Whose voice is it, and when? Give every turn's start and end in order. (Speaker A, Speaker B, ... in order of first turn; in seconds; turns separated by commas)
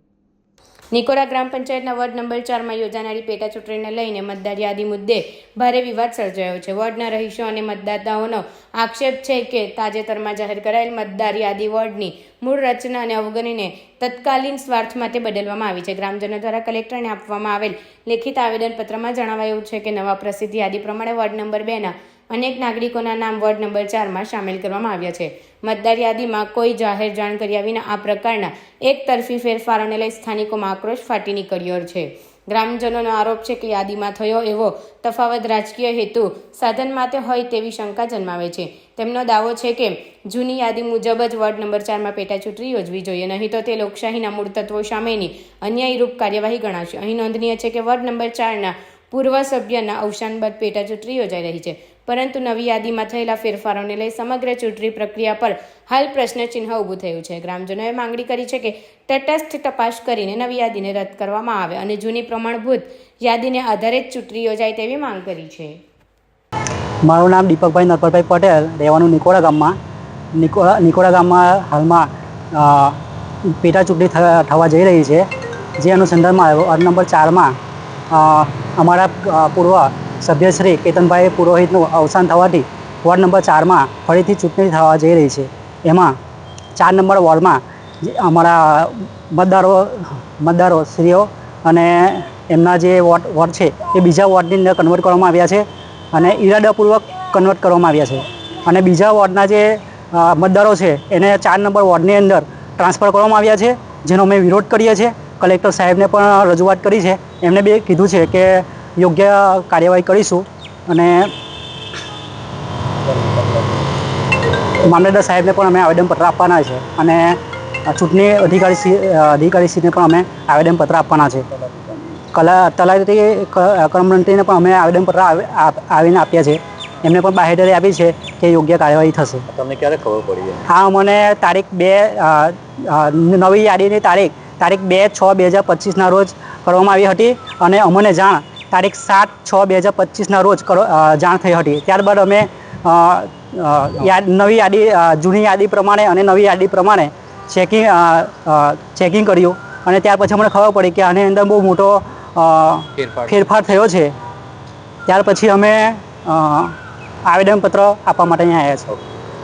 Speaker A: 0.9-65.8, Speaker B: 67.0-69.7, Speaker B: 70.3-75.2, Speaker B: 75.8-77.5, Speaker B: 78.1-86.1, Speaker B: 86.8-111.3, Speaker C: 113.1-113.8, Speaker B: 114.8-117.4, Speaker B: 117.9-121.5, Speaker B: 122.3-129.4, Speaker C: 129.5-130.6, Speaker B: 130.7-154.1, Speaker C: 153.0-153.4, Speaker B: 155.1-156.7, Speaker B: 157.3-158.9